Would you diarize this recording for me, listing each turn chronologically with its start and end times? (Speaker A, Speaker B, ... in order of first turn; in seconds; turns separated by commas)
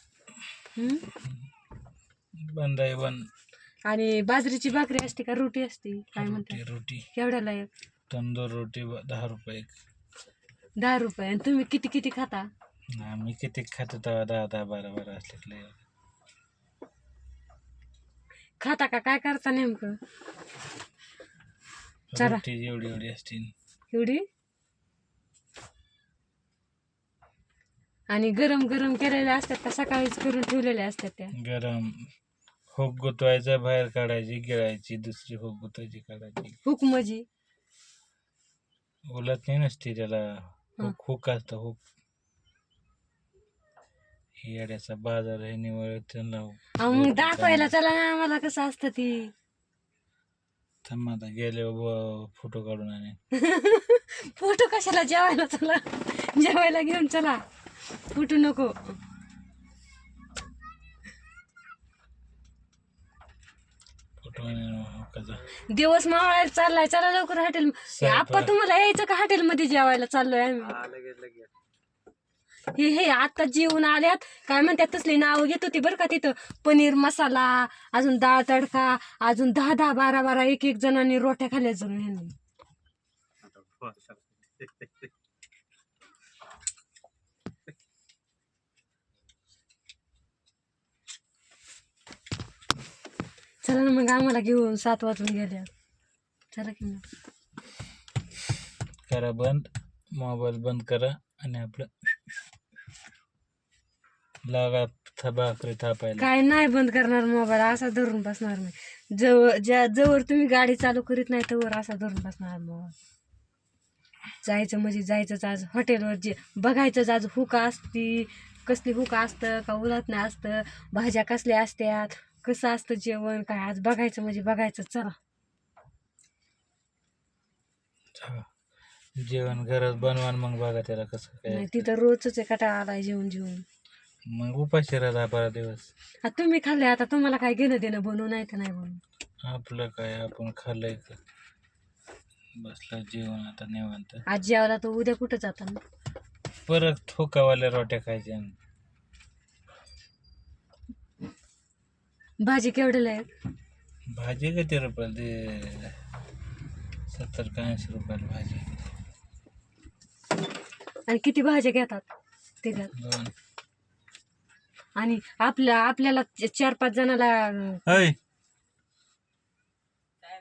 Speaker A: 0.7-1.1, Speaker B: 2.4-3.3, Speaker A: 3.9-6.6, Speaker B: 6.1-7.0, Speaker A: 7.1-7.7, Speaker B: 8.1-9.7, Speaker A: 10.8-12.5, Speaker B: 12.9-15.8, Speaker A: 18.6-20.0, Speaker B: 22.1-23.5, Speaker A: 22.1-22.4, Speaker A: 23.9-24.2, Speaker A: 28.1-31.3, Speaker B: 31.3-32.1, Speaker B: 32.7-36.6, Speaker A: 36.6-37.2, Speaker B: 39.1-41.8, Speaker B: 44.4-47.7, Speaker A: 46.8-49.3, Speaker B: 50.8-53.2, Speaker A: 53.3-57.4, Speaker A: 58.1-59.0, Speaker B: 64.2-65.4, Speaker A: 65.7-70.9, Speaker B: 67.9-68.5, Speaker B: 70.9-71.4, Speaker A: 72.7-82.3, Speaker B: 83.8-84.1, Speaker A: 93.6-95.7, Speaker A: 96.5-97.0, Speaker B: 99.1-102.1, Speaker B: 104.5-106.3, Speaker A: 106.2-112.9, Speaker A: 114.4-125.2, Speaker B: 128.2-128.5, Speaker B: 129.2-131.9, Speaker A: 131.5-133.6, Speaker B: 134.3-135.9, Speaker A: 136.2-139.0, Speaker B: 139.4-141.2, Speaker B: 142.6-144.2, Speaker A: 144.3-145.8, Speaker B: 146.7-148.5, Speaker A: 152.4-153.3, Speaker B: 154.1-155.9, Speaker B: 157.1-158.7, Speaker A: 161.1-162.0, Speaker A: 162.6-162.9, Speaker B: 162.9-163.3, Speaker A: 165.0-167.9, Speaker B: 167.8-168.2